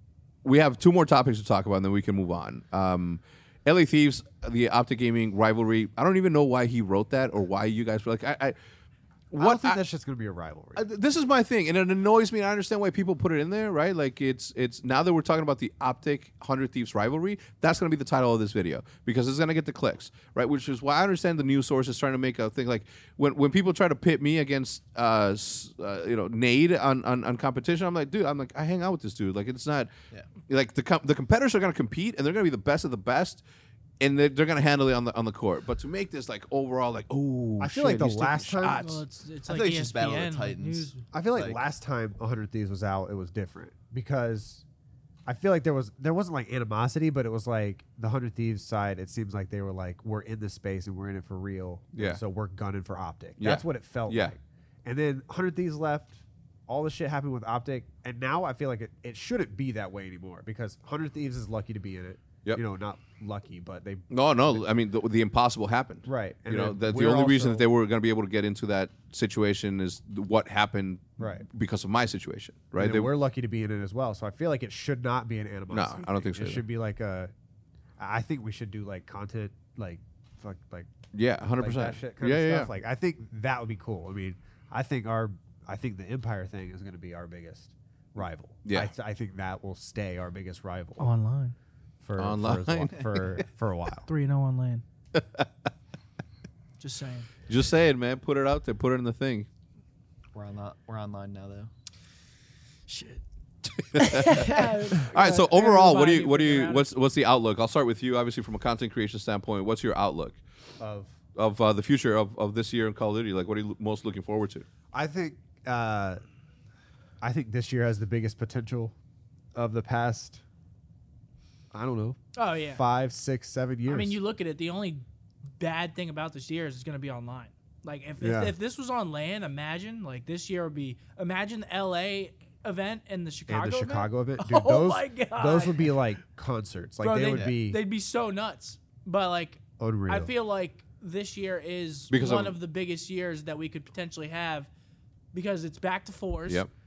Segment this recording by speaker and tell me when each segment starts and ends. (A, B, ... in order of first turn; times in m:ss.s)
0:00.4-0:08.6 A
0:09.3-0:09.8 A
0:09.4-0:10.8 B
0:10.8-0:29.9 A
0:30.5-0:33.4 A
0:34.0-0:39.0 A
0:37.6-0:38.9 B
0:38.7-0:41.0 C
0:39.5-0:41.6 D
0:41.1-0:44.6 B
0:45.2-1:04.6 B
0:51.9-0:52.2 A
0:53.4-0:54.3 A
1:04.1-1:13.1 A
1:06.0-1:07.6 B
1:11.2-1:11.4 B
1:12.8-1:17.3 B
1:15.7-1:16.6 A
1:18.0-1:20.9 B
1:21.1-1:22.7 A
1:21.6-1:31.1 B
1:28.6-1:28.9 A
1:31.0-1:31.5 C
1:32.0-1:34.1 B
1:32.2-1:33.3 A
1:34.1-1:34.8 C
1:35.1-1:35.4 A
1:36.8-1:37.3 C
1:37.5-1:39.5 A
1:40.3-1:41.7 D
1:42.9-1:43.2 C
1:43.6-1:50.4 A
1:43.9-1:46.9 C
1:50.8-1:51.2 B
1:51.3-1:54.6 A
1:54.9-1:56.2 B
1:57.2-1:58.9 B
1:59.5-2:00.4 B
2:01.7-2:02.2 B
2:02.3-2:02.8 C
2:02.7-2:04.2 B
2:03.9-2:16.1 C
2:08.2-2:08.5 B
2:13.5-2:17.8 B
2:17.0-2:24.7 C
2:19.8-2:20.3 B
2:22.1-2:22.6 A
2:25.3-2:26.6 C